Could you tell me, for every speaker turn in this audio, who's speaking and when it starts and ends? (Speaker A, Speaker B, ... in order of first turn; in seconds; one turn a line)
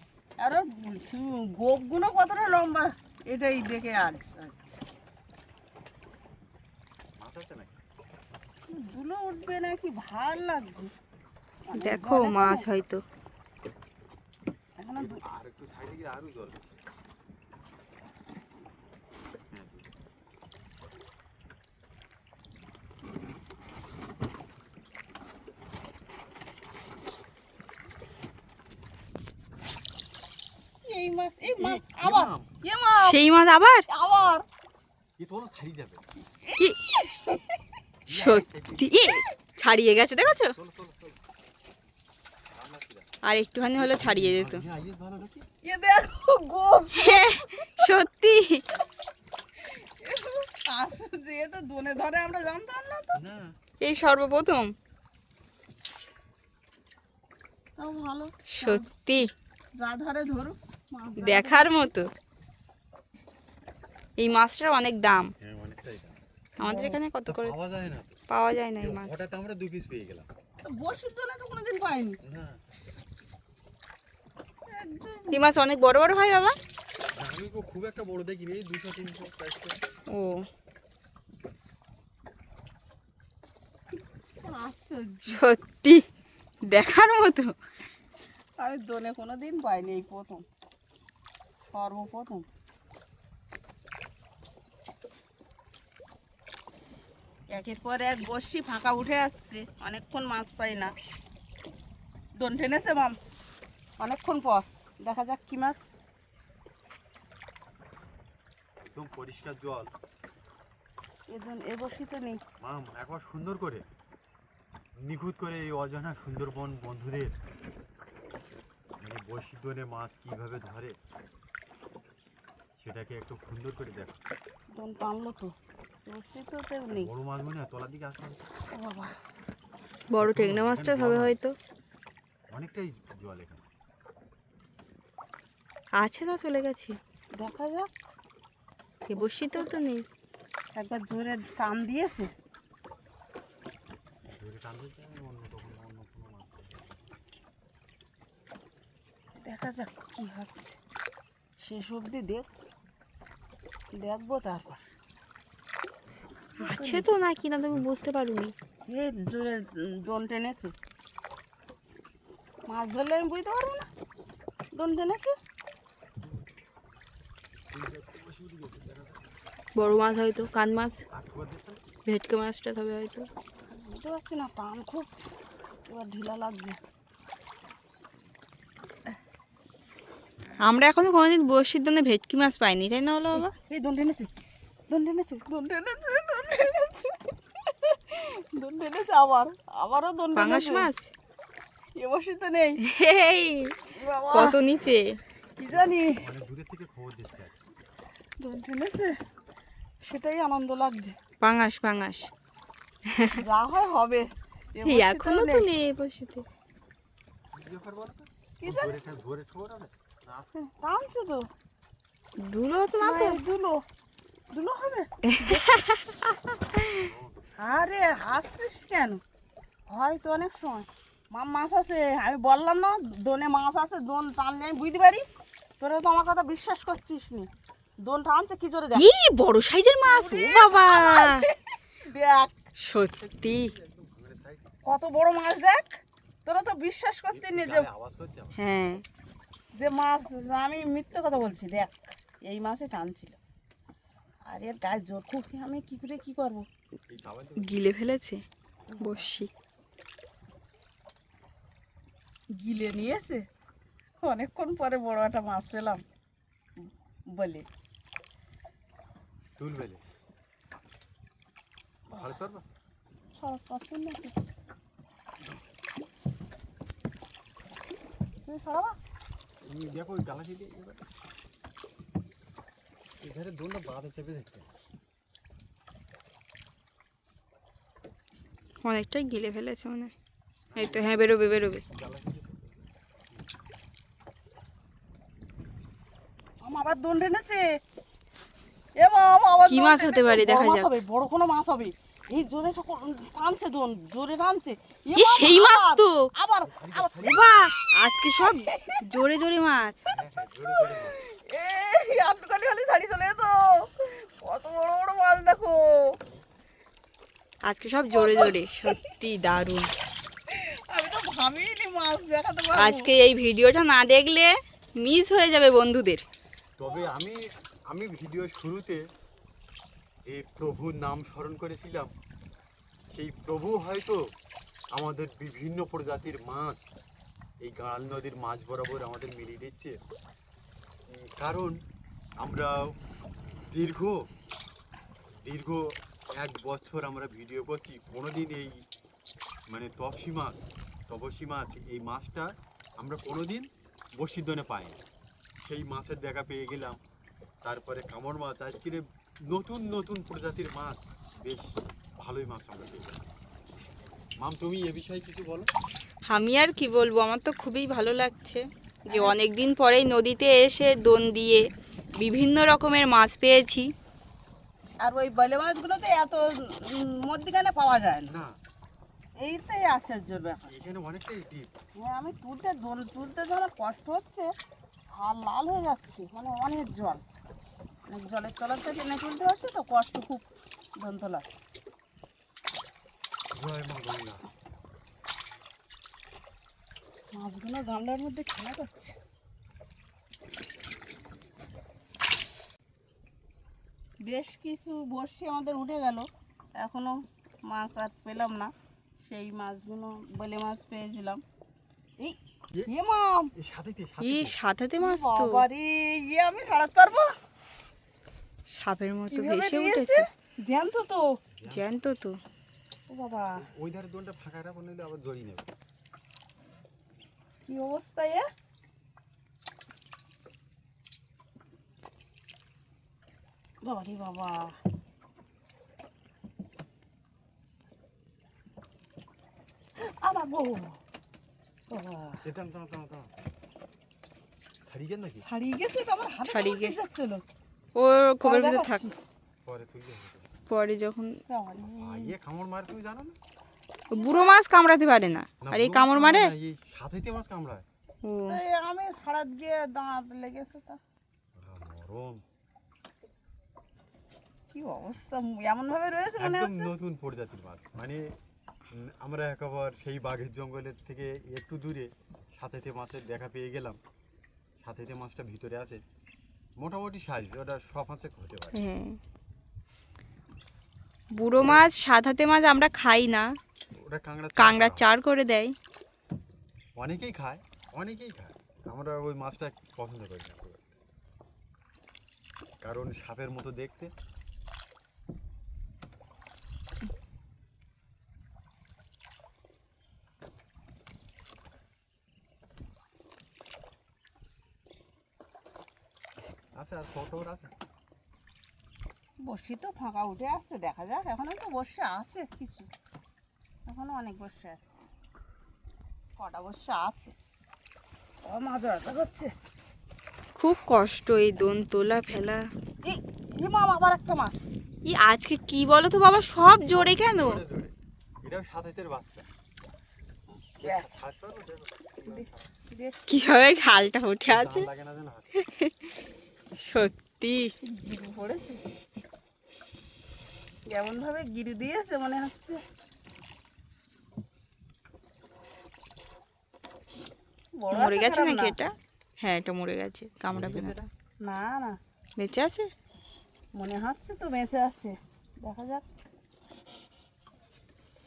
Speaker A: 0.4-4.8
Speaker B: 7.2-7.8
Speaker A: 8.7-10.9
Speaker A: 11.7-12.7
Speaker C: 11.8-13.0
Speaker A: 14.8-15.2
Speaker B: 15.0-16.8
Speaker B: 19.5-19.9
Speaker A: 30.8-33.2
Speaker B: 31.4-32.5
Speaker C: 32.9-33.8
Speaker A: 33.9-34.4
Speaker B: 35.2-36.0
Speaker A: 36.4-37.6
Speaker B: 38.1-39.0
Speaker C: 38.1-40.5
Speaker B: 40.5-41.2
Speaker B: 42.5-43.1
Speaker C: 43.2-44.6
Speaker B: 43.8-45.5
Speaker A: 45.6-47.8
Speaker C: 46.9-48.6
Speaker A: 49.6-53.2
Speaker B: 53.1-53.5
Speaker C: 53.8-54.7
Speaker A: 57.8-58.9
Speaker C: 58.5-59.3
Speaker A: 59.8-61.9
Speaker C: 61.2-62.1
Speaker C: 64.2-65.3
Speaker B: 65.4-66.2
Speaker C: 66.6-67.5
Speaker A: 66.6-67.0
Speaker B: 67.2-68.2
Speaker C: 68.3-69.2
Speaker B: 68.8-70.3
Speaker A: 70.6-72.2
Speaker B: 72.2-72.6
Speaker A: 74.7-75.4
Speaker C: 75.3-76.6
Speaker B: 77.2-79.8
Speaker C: 80.1-80.5
Speaker A: 84.4-85.4
Speaker C: 85.2-86.0
Speaker C: 86.7-87.5
Speaker A: 88.6-90.4
Speaker A: 91.7-92.5
Speaker A: 97.5-100.9
Speaker A: 102.4-103.2
Speaker A: 104.0-105.9
Speaker B: 108.9-109.9
Speaker A: 111.3-112.4
Speaker B: 112.6-113.8
Speaker B: 115.0-117.3
Speaker B: 119.0-121.0
Speaker B: 122.8-124.2
Speaker A: 124.7-125.5
Speaker A: 126.0-127.1
Speaker B: 126.9-128.5
Speaker A: 128.7-129.2
Speaker C: 130.1-131.5
Speaker B: 130.2-131.3
Speaker B: 132.5-133.7
Speaker C: 136.0-137.0
Speaker A: 137.3-137.9
Speaker C: 139.1-140.1
Speaker A: 139.2-139.7
Speaker A: 140.7-142.3
Speaker B: 144.3-147.0
Speaker A: 149.4-150.8
Speaker A: 151.6-152.5
Speaker A: 153.9-154.8
Speaker A: 156.6-157.1
Speaker C: 156.6-158.5
Speaker A: 158.9-160.7
Speaker A: 162.7-163.9
Speaker A: 164.7-165.4
Speaker B: 167.7-169.2
Speaker C: 169.8-171.0
Speaker B: 171.1-171.8
Speaker C: 172.1-173.3
Speaker A: 173.7-175.1
Speaker A: 175.9-176.8
Speaker C: 180.6-183.5
Speaker A: 183.3-184.3
Speaker A: 184.9-190.9
Speaker C: 190.3-191.1
Speaker A: 192.0-192.8
Speaker C: 192.8-193.8
Speaker A: 193.9-194.6
Speaker C: 194.3-195.2
Speaker A: 195.6-196.2
Speaker B: 195.7-197.6
Speaker A: 198.4-199.1
Speaker A: 200.0-201.2
Speaker C: 201.4-202.3
Speaker C: 203.0-203.4
Speaker A: 203.3-205.7
Speaker C: 204.8-206.4
Speaker B: 207.5-210.5
Speaker A: 208.6-209.0
Speaker A: 210.5-211.5
Speaker C: 212.4-213.4
Speaker A: 213.0-213.8
Speaker A: 214.5-215.8
Speaker C: 215.2-217.1
Speaker B: 216.7-217.5
Speaker A: 217.6-219.2
Speaker A: 219.9-225.2
Speaker A: 225.8-227.5
Speaker A: 228.0-229.1
Speaker C: 228.9-231.4
Speaker A: 230.1-232.7
Speaker C: 232.8-233.7
Speaker B: 233.1-234.7
Speaker A: 234.8-237.9
Speaker B: 237.3-238.6
Speaker C: 238.6-239.0
Speaker A: 239.7-243.4
Speaker A: 244.5-246.7
Speaker B: 247.1-247.8
Speaker C: 247.6-248.4
Speaker A: 248.9-249.3
Speaker C: 249.0-249.5
Speaker A: 252.5-253.4
Speaker A: 254.2-256.0
Speaker A: 257.3-257.6
Speaker B: 259.6-260.0
Speaker B: 262.1-262.6
Speaker A: 263.4-264.4
Speaker A: 268.4-269.0
Speaker B: 269.6-271.0
Speaker B: 273.2-274.7
Speaker C: 278.8-280.1
Speaker B: 280.7-281.2
Speaker C: 280.8-281.8
Speaker B: 281.9-282.9
Speaker A: 286.6-287.8
Speaker A: 288.9-297.4
Speaker C: 289.6-290.9
Speaker C: 295.1-296.3
Speaker B: 296.6-297.5
Speaker C: 297.2-300.0
Speaker A: 298.4-299.1
Speaker B: 300.1-301.2
Speaker A: 300.8-306.2
Speaker C: 307.6-309.9
Speaker A: 308.1-309.1
Speaker A: 310.5-313.1
Speaker C: 312.8-316.2
Speaker B: 316.8-319.0
Speaker B: 320.2-322.1
Speaker B: 323.1-324.2
Speaker B: 324.9-326.8
Speaker B: 327.6-330.0
Speaker B: 331.1-331.8
Speaker B: 332.4-332.9
Speaker B: 333.7-334.3
Speaker B: 335.4-338.8
Speaker B: 339.7-345.0
Speaker B: 345.6-347.0
Speaker B: 347.6-353.2
Speaker B: 354.4-355.7
Speaker C: 356.3-361.6
Speaker A: 359.1-359.4
Speaker C: 362.2-363.9
Speaker A: 365.0-368.4
Speaker B: 368.3-368.6
Speaker A: 369.4-370.7
Speaker B: 370.7-371.7
Speaker A: 371.9-374.5
Speaker A: 375.1-377.2
Speaker A: 378.1-380.4
Speaker A: 381.0-381.4
Speaker B: 383.5-384.4
Speaker A: 387.3-389.1
Speaker A: 394.2-401.4
Speaker A: 402.2-403.5
Speaker B: 403.6-404.5
Speaker C: 404.2-405.6
Speaker A: 405.0-407.3
Speaker C: 408.7-410.3
Speaker A: 409.3-411.4
Speaker B: 411.6-411.9
Speaker C: 411.7-412.4
Speaker A: 413.1-413.6
Speaker B: 413.6-415.7
Speaker A: 417.6-418.4
Speaker A: 423.8-424.8
Speaker A: 430.0-431.0
Speaker A: 431.9-432.4
Speaker B: 432.4-433.3
Speaker B: 434.8-435.4
Speaker A: 435.4-437.4
Speaker C: 436.5-436.9
Speaker C: 437.9-439.1
Speaker A: 438.4-439.1
Speaker B: 439.6-440.5
Speaker C: 440.7-441.4
Speaker A: 441.5-442.3
Speaker B: 441.8-443.4
Speaker A: 444.1-444.6
Speaker C: 444.1-446.5
Speaker B: 445.6-447.8
Speaker C: 448.2-448.6
Speaker A: 448.5-451.0
Speaker B: 451.6-452.4
Speaker A: 454.7-456.9
Speaker B: 456.4-458.4
Speaker B: 458.9-464.0
Speaker B: 464.8-466.0
Speaker B: 466.8-468.8
Speaker C: 468.7-469.2
Speaker C: 471.3-473.5
Speaker B: 473.9-475.1
Speaker C: 474.6-475.7
Speaker B: 477.0-481.0
Speaker B: 482.8-484.1
Speaker B: 496.8-497.7
Speaker A: 499.4-502.9
Speaker A: 503.9-504.8
Speaker A: 506.4-507.3
Speaker A: 508.4-509.5
Speaker C: 510.6-512.7
Speaker A: 513.0-514.7
Speaker C: 515.0-517.6
Speaker B: 516.9-519.5
Speaker A: 520.5-521.0
Speaker B: 520.8-522.7
Speaker A: 522.2-523.3
Speaker C: 523.3-524.9
Speaker B: 524.5-525.6
Speaker C: 525.5-526.1
Speaker C: 526.7-527.7
Speaker A: 527.8-528.8
Speaker A: 530.9-532.8
Speaker A: 537.8-538.7
Speaker C: 537.9-541.1
Speaker B: 540.5-540.9
Speaker A: 541.4-542.0
Speaker C: 542.4-542.9
Speaker A: 543.7-546.0